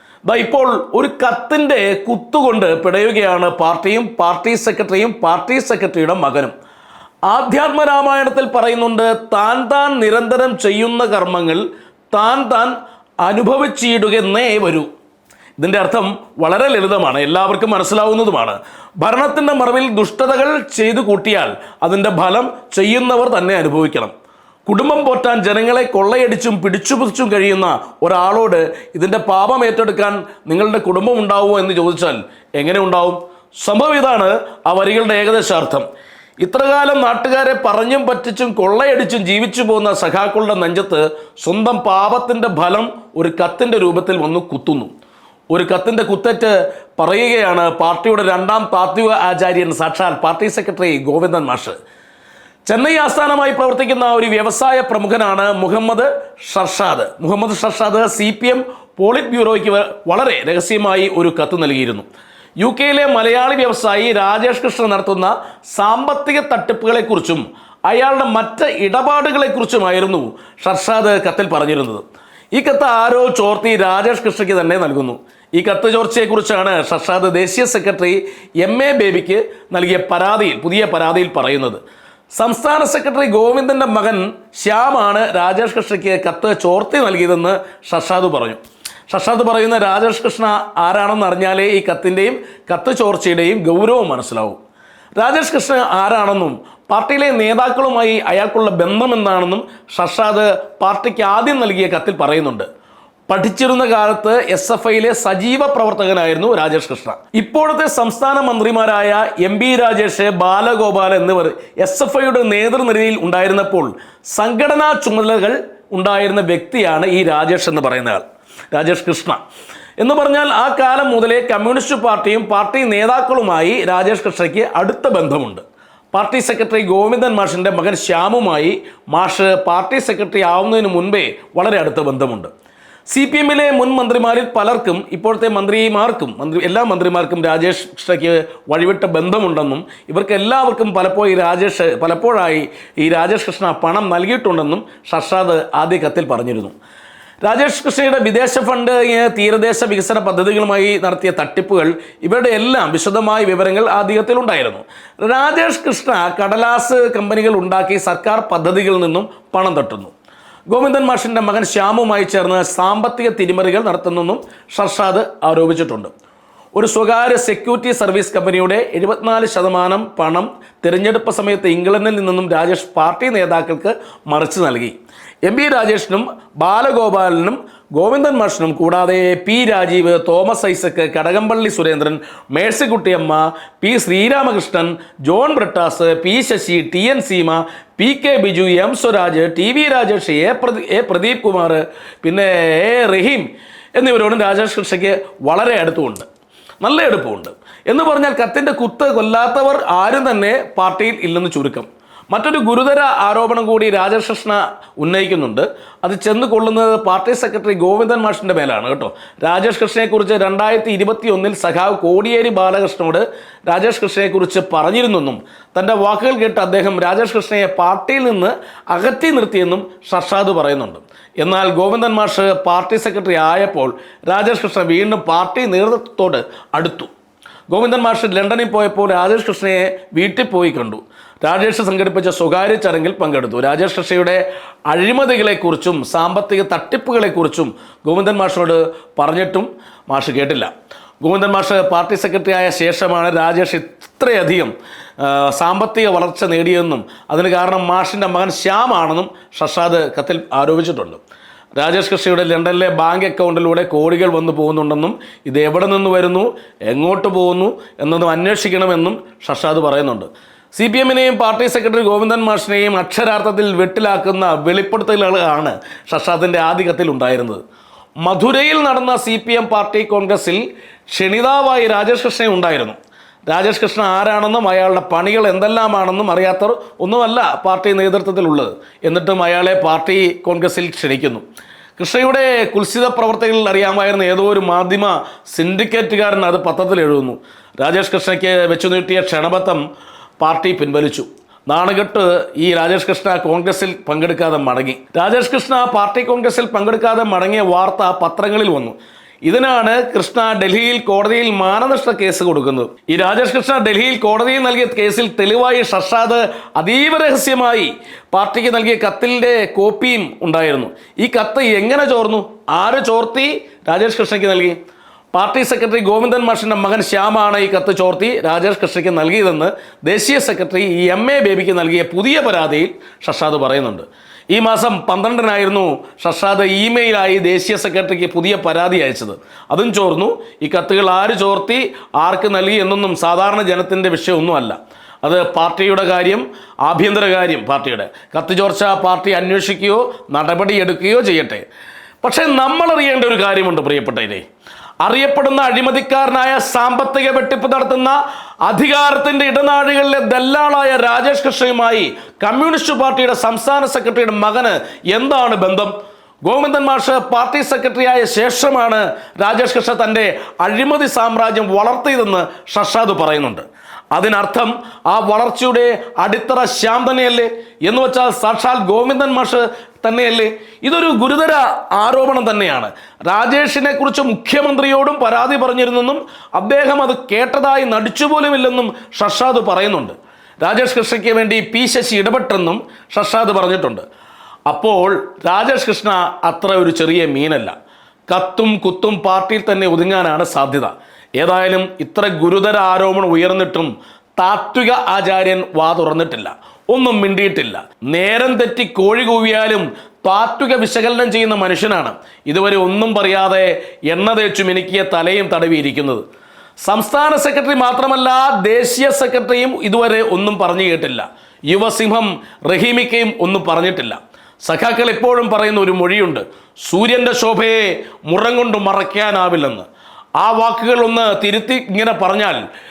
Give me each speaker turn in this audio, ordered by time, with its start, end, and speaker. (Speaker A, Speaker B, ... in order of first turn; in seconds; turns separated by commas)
Speaker A: 0.2-6.5, Speaker A: 7.3-14.9, Speaker A: 15.6-24.1, Speaker A: 24.6-35.9, Speaker A: 36.4-44.9, Speaker A: 45.5-51.8, Speaker A: 52.6-62.0, Speaker A: 62.6-81.8, Speaker A: 82.3-94.6, Speaker A: 95.2-102.7, Speaker A: 103.3-119.4, Speaker A: 120.0-132.5, Speaker A: 133.1-146.7, Speaker A: 147.4-160.1, Speaker A: 160.7-166.1, Speaker A: 166.7-196.2, Speaker A: 196.8-227.1, Speaker A: 227.7-240.7, Speaker A: 241.2-251.2, Speaker A: 251.8-267.6, Speaker A: 268.2-272.9, Speaker A: 273.5-281.4, Speaker A: 282.0-289.8, Speaker A: 290.4-314.8, Speaker A: 315.3-341.6, Speaker A: 342.2-344.4, Speaker A: 345.0-355.9, Speaker A: 356.4-384.0, Speaker A: 384.7-387.7, Speaker A: 388.3-406.2, Speaker A: 406.8-422.6